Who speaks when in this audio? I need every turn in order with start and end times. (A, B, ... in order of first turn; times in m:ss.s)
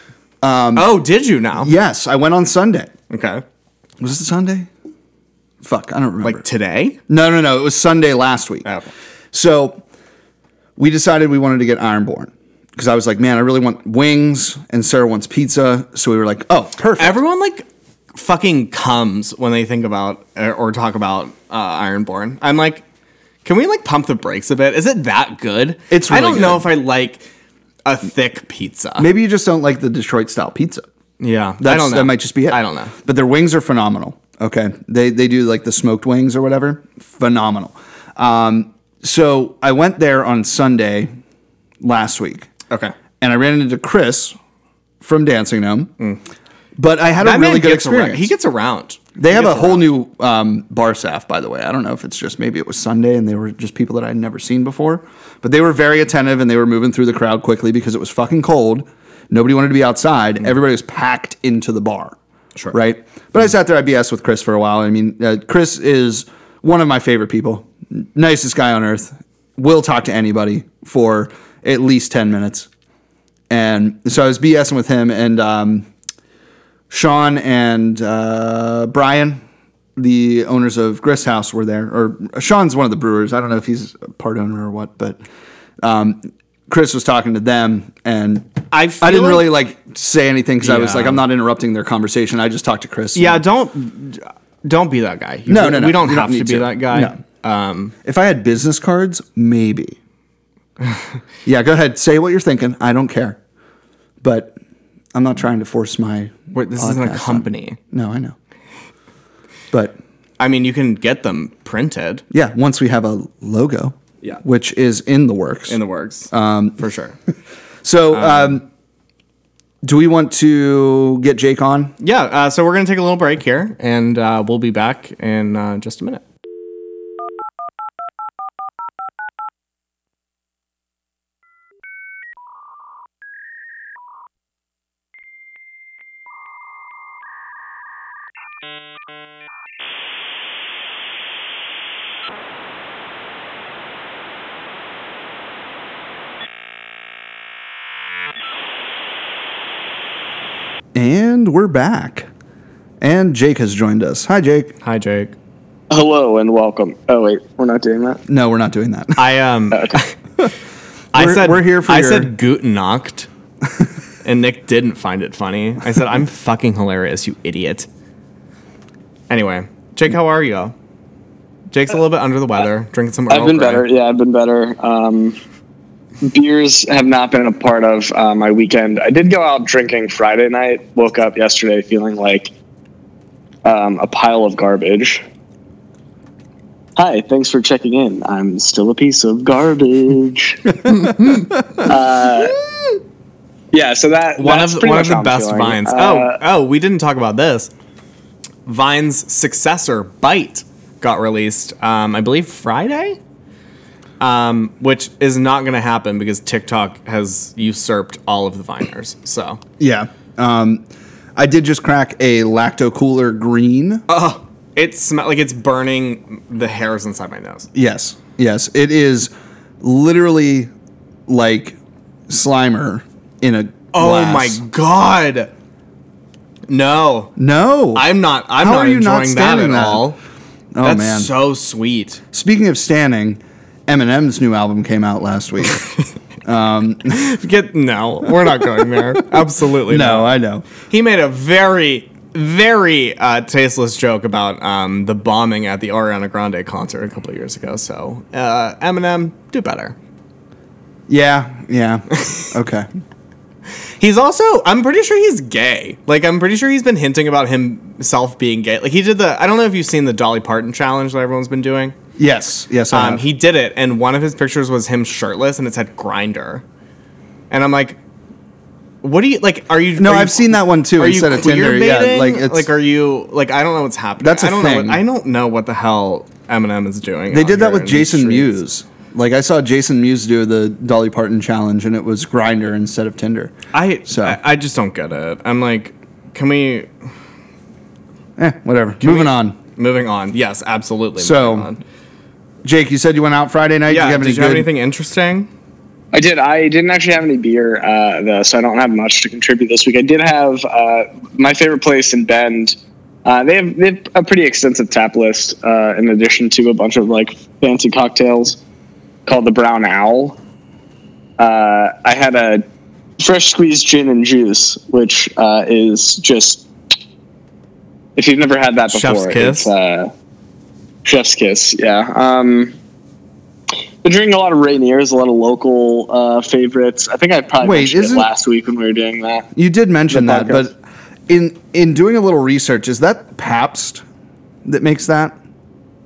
0:00.4-0:01.0 A
0:00.8-0:01.7 B
0:01.6-0:02.9 A
0:03.1-0:03.4 B
0:04.0-0:04.7 A
0:05.6-0:06.4 A
0:06.2-0:07.0 B
0:07.1-0:08.7 A
0:09.3-0:09.8 A
0:10.8-0:17.2 A
0:17.0-0:22.8 B
0:23.4-0:27.3 B
0:25.9-0:26.7 A
0:27.8-0:29.1 B
0:29.0-0:30.9 A
0:31.2-0:32.9 B
0:31.6-0:41.1 A
0:41.8-0:42.5 A
0:43.2-0:44.4 A
0:45.0-0:45.9 A
0:46.8-0:48.3 A
0:47.2-0:49.9 B
0:49.2-1:02.2 A
1:02.7-1:12.7 A
1:13.5-1:15.9 A
1:16.9-1:19.4 A
1:20.0-1:25.2 A
1:25.8-1:33.4 A
1:28.7-1:29.5 B
1:30.6-1:31.2 B
1:33.2-1:37.9 B
1:35.5-1:37.2 A
1:38.0-1:40.0 A
1:41.4-1:43.4 A
1:44.2-1:44.6 A
1:45.1-1:48.4 A
1:46.5-1:47.8 B
1:50.4-1:52.2 B
1:52.3-1:55.8 A
1:55.7-1:57.2 B
1:56.3-1:56.8 A
1:57.8-1:58.6 A
1:58.1-1:58.6 B
1:59.8-2:02.0 A
2:02.0-2:06.2 B
2:30.9-2:32.3 A
2:33.0-2:34.8 A
2:34.8-2:35.4 B
2:35.9-2:38.2 C
2:38.3-2:39.2 A
2:39.2-2:40.2 B
2:39.7-2:40.0 C
2:41.1-2:43.3 B
2:41.2-2:42.3 A
2:44.2-2:47.9 B
2:49.3-2:50.8 B
2:51.7-2:53.8 B
2:53.3-2:55.4 C
2:56.2-3:02.5 C
3:03.6-3:05.2 C
3:07.0-3:11.2 C
3:11.8-3:12.6 C
3:13.7-3:16.4 C
3:14.4-3:17.7 B
3:18.7-3:23.2 B
3:24.2-3:29.6 B
3:29.8-3:30.8 A
3:31.4-3:34.0 A
3:34.1-3:37.7 B
3:37.7-3:40.7 A
3:41.3-3:44.6 A
3:43.9-3:45.5 B
3:46.7-3:47.3 B
3:47.4-3:50.1 A
3:48.0-3:50.2 B
3:50.7-3:51.3 A
3:50.8-3:52.2 B
3:52.3-3:55.8 A
3:56.4-3:57.2 A
3:57.1-4:10.0 B
3:59.9-4:00.7 A
4:11.1-4:12.9 A
4:12.2-4:12.5 B
4:14.0-4:22.0 B
4:22.2-4:23.2 A
4:22.9-4:26.6 B
4:27.5-4:28.0 B
4:29.0-4:38.6 B
4:30.0-4:32.7 A
4:34.2-4:35.0 A
4:37.3-4:43.6 A
4:43.7-4:46.9 B
4:44.1-4:44.4 A
4:48.4-4:49.6 A
4:49.0-4:51.8 B
4:51.2-4:51.7 A
4:52.6-4:54.7 A
4:53.9-4:55.5 B
4:56.1-5:08.6 C
5:09.3-5:10.4 C
5:11.4-5:12.6 C
5:13.2-5:16.7 C
5:18.2-5:20.1 C
5:18.9-5:19.7 B
5:21.0-5:22.8 C
5:24.0-5:29.5 C
5:27.6-5:28.3 A
5:29.6-5:30.8 A
5:30.1-5:30.7 C
5:31.3-5:34.0 A
5:34.6-5:35.4 A